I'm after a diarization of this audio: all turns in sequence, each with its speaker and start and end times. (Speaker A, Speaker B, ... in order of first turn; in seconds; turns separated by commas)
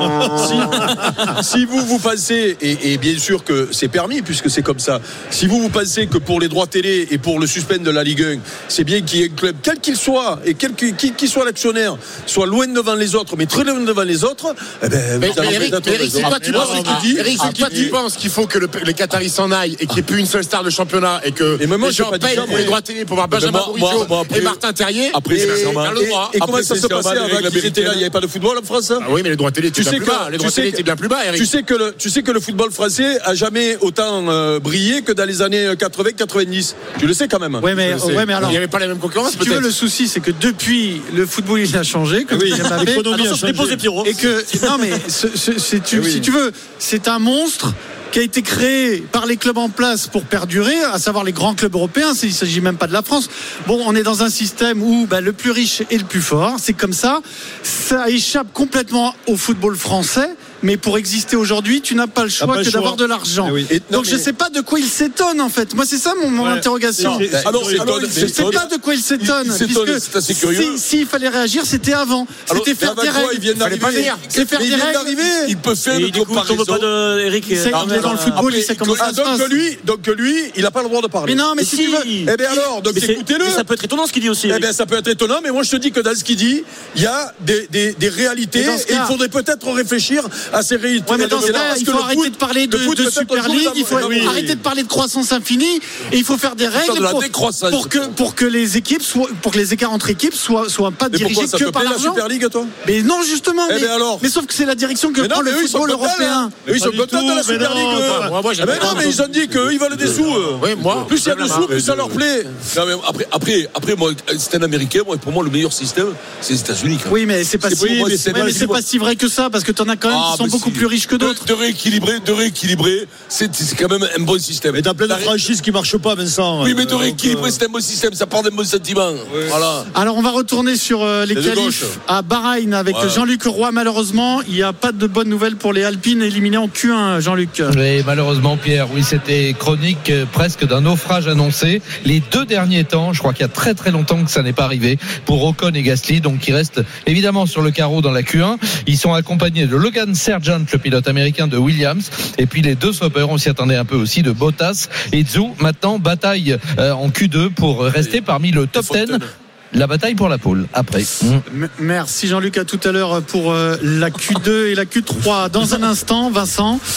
Speaker A: 0.2-0.5, Speaker B: 0.3-17.9, Speaker C: 15.2-26.4, Speaker D: 15.3-16.3, Speaker A: 16.2-17.9, Speaker B: 21.6-22.8, Speaker D: 23.3-24.6, Speaker D: 25.1-28.1, Speaker B: 25.2-29.1, Speaker C: 29.0-31.5, Speaker B: 29.7-30.8, Speaker B: 31.3-37.8, Speaker E: 37.6-38.6, Speaker C: 37.7-39.7, Speaker E: 39.2-43.2, Speaker A: 42.3-43.9, Speaker F: 42.8-44.9, Speaker E: 44.0-75.5, Speaker A: 62.4-63.7, Speaker B: 63.7-64.3, Speaker A: 66.4-68.3, Speaker D: 67.0-70.8, Speaker B: 67.6-68.5, Speaker B: 72.8-75.4, Speaker C: 73.6-74.2, Speaker D: 75.3-76.9, Speaker F: 75.9-78.4, Speaker E: 77.4-79.6, Speaker D: 77.7-79.1, Speaker B: 79.0-81.5, Speaker E: 81.2-82.3, Speaker F: 81.5-84.7, Speaker B: 82.2-83.6, Speaker B: 84.5-94.5, Speaker E: 88.5-89.1, Speaker E: 91.0-102.2, Speaker A: 93.9-94.5, Speaker D: 96.7-98.1, Speaker B: 101.1-102.7, Speaker E: 102.8-106.5, Speaker B: 103.7-104.2, Speaker B: 105.2-112.6, Speaker A: 106.7-109.1, Speaker C: 107.7-111.9, Speaker A: 110.1-110.6, Speaker D: 110.9-118.7, Speaker E: 117.1-121.4, Speaker A: 117.9-118.8, Speaker D: 120.1-125.5, Speaker A: 124.7-127.6, Speaker D: 126.6-129.9, Speaker A: 129.3-129.6, Speaker E: 129.9-137.8, Speaker B: 131.3-131.9, Speaker D: 132.9-133.2, Speaker G: 137.7-161.4, Speaker D: 158.7-159.3, Speaker E: 161.5-166.8